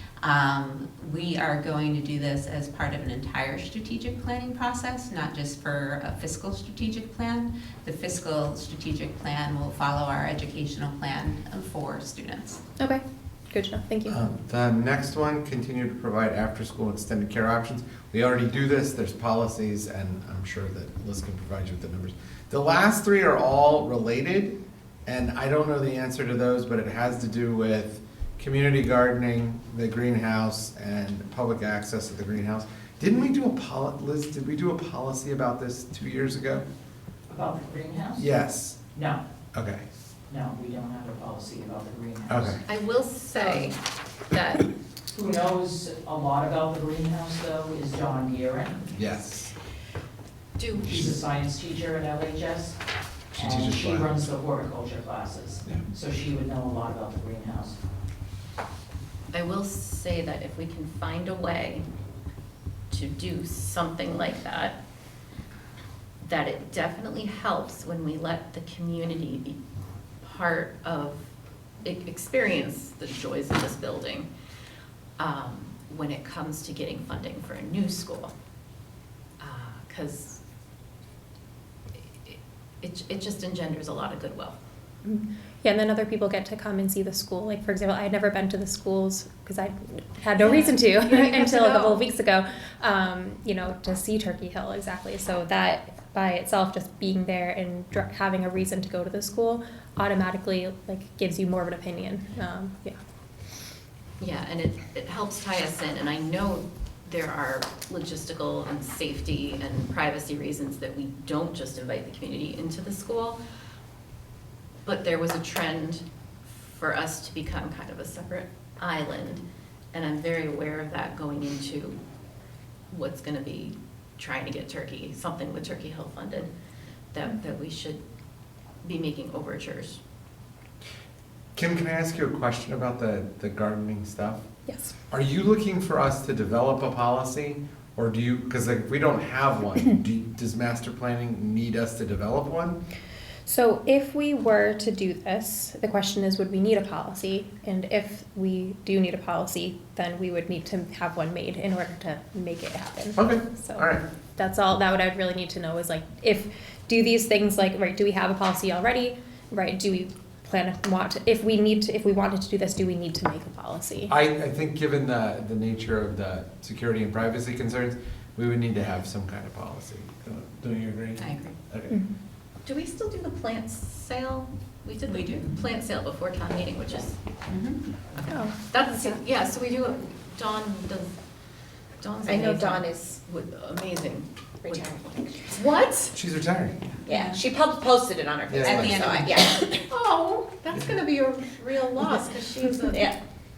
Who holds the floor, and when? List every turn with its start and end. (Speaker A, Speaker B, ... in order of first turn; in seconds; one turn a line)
Speaker A: 0.2-12.6
Speaker B: 12.8-14.2
Speaker C: 14.1-36.6
Speaker D: 37.3-38.2
Speaker C: 38.2-38.8
Speaker D: 38.9-39.2
Speaker C: 39.5-39.8
Speaker D: 40.3-42.5
Speaker C: 42.3-42.6
Speaker E: 42.6-43.8
Speaker E: 44.3-44.7
Speaker D: 45.1-48.8
Speaker C: 48.9-49.5
Speaker E: 50.6-51.0
Speaker D: 50.9-52.8
Speaker C: 53.4-54.3
Speaker D: 53.4-57.8
Speaker E: 59.3-61.8
Speaker E: 62.9-64.8
Speaker E: 66.2-69.6
Speaker E: 70.2-71.2
Speaker E: 71.8-74.3
Speaker E: 75.2-78.3
Speaker E: 79.4-80.4
Speaker E: 82.2-84.6
Speaker B: 85.0-103.0
Speaker E: 90.4-92.1
Speaker E: 104.2-113.4
Speaker E: 114.8-122.0
Speaker E: 122.9-126.5
Speaker E: 127.1-128.0
Speaker E: 128.8-130.0
Speaker C: 131.5-134.4
Speaker B: 134.7-134.9
Speaker C: 135.1-142.8
Speaker B: 143.4-164.1
Speaker C: 153.2-154.0
Speaker C: 164.1-171.9
Speaker A: 171.2-171.6
Speaker E: 172.6-177.2
Speaker A: 175.1-175.6
Speaker A: 177.5-177.8
Speaker E: 178.2-181.1
Speaker B: 178.3-179.2
Speaker E: 182.0-186.1
Speaker F: 182.2-183.2
Speaker F: 184.6-185.4
Speaker C: 186.1-186.8
Speaker F: 187.0-189.8
Speaker A: 187.1-187.4
Speaker C: 188.5-189.2
Speaker A: 188.6-189.5
Speaker E: 189.9-193.2
Speaker F: 192.9-193.2